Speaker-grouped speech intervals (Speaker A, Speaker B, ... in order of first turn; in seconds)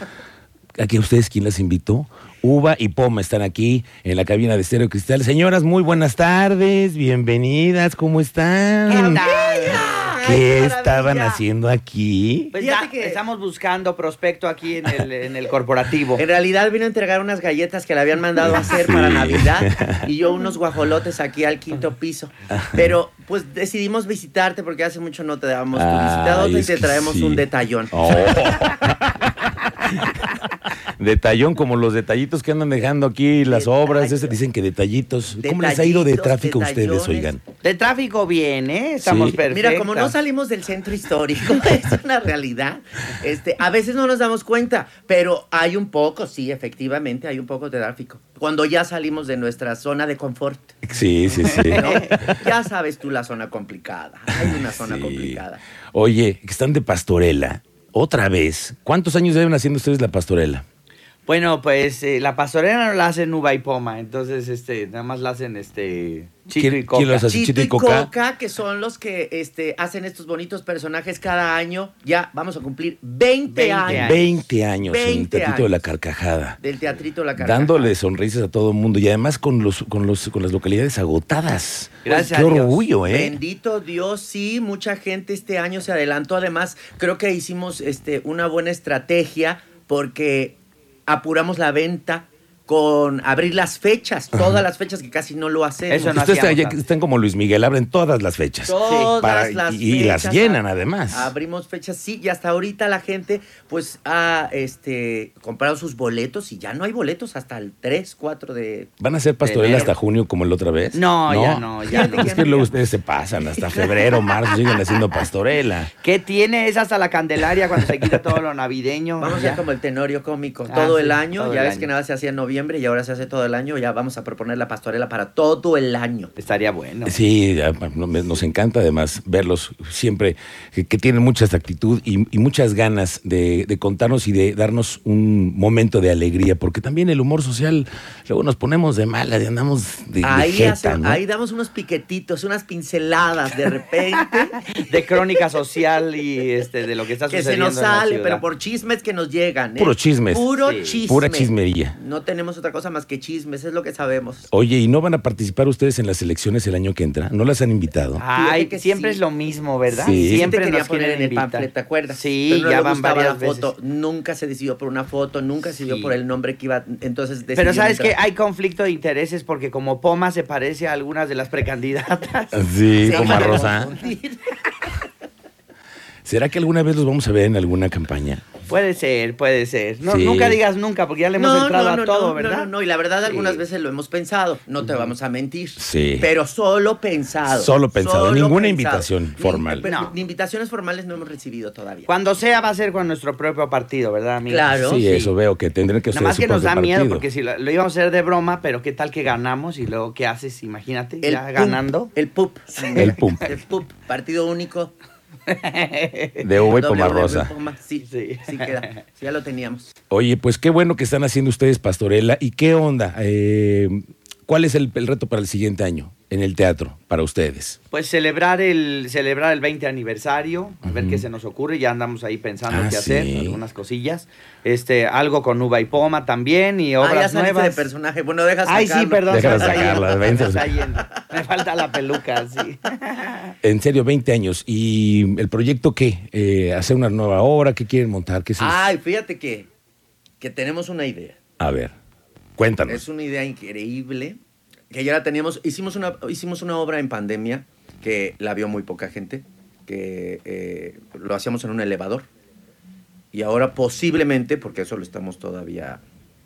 Speaker A: 0.8-9.2, 10.2-12.5, 18.6-20.1, 25.7-30.4, 31.0-37.4, 39.0-39.4, 50.8-52.4, 54.4-55.4, 55.9-60.6, 66.5-68.1, 73.9-76.6, 77.4-83.3, 95.9-101.3, 109.0-115.9, 127.0-141.2, 149.8-150.5, 151.1-151.9, 154.5-158.2, 159.9-160.5, 172.5-173.9, 176.2-178.4, 180.1-180.6, 185.8-186.3, 187.5-189.8, 194.7-197.2, 203.0-203.6, 206.4-207.5, 210.1-217.8, 220.8-221.2, 222.7-223.6, 229.3-230.7, 233.6-238.8, 241.6-241.9, 242.6-243.0
Speaker B: 8.9-10.1, 12.5-16.2, 37.6-40.1, 51.3-52.2, 61.3-67.3, 73.5-74.2, 82.0-82.9, 95.9-96.8, 98.7-99.1, 109.4-109.9, 110.9-112.5, 116.0-119.6, 120.7-121.9, 126.4-127.1, 144.2-148.4, 150.6-151.1, 158.2-163.7, 165.7-166.2, 167.5-172.6, 173.1-173.7, 178.7-182.7, 183.2-183.6, 189.8-190.1, 192.0-195.3, 196.1-202.1, 202.8-203.2, 205.5-206.5, 208.0-208.9, 217.9-227.9, 228.7-233.5
Speaker C: 8.9-11.4, 12.5-13.2, 16.1-28.6, 33.4-34.4, 35.3-37.4, 39.4-50.8, 51.6-55.6, 67.3-75.8, 76.6-77.9, 83.0-96.1, 98.6-108.9, 111.8-112.7, 113.4-113.9, 119.2-126.3, 140.2-144.7, 147.3-154.5, 158.3-159.2, 160.0-168.2, 173.0-174.4, 181.3-192.1, 194.4-195.0, 201.2-204.9, 206.6-209.9, 227.0-230.1, 238.6-239.7, 240.4-241.4, 242.8-244.4, 244.9-252.3, 253.3-256.0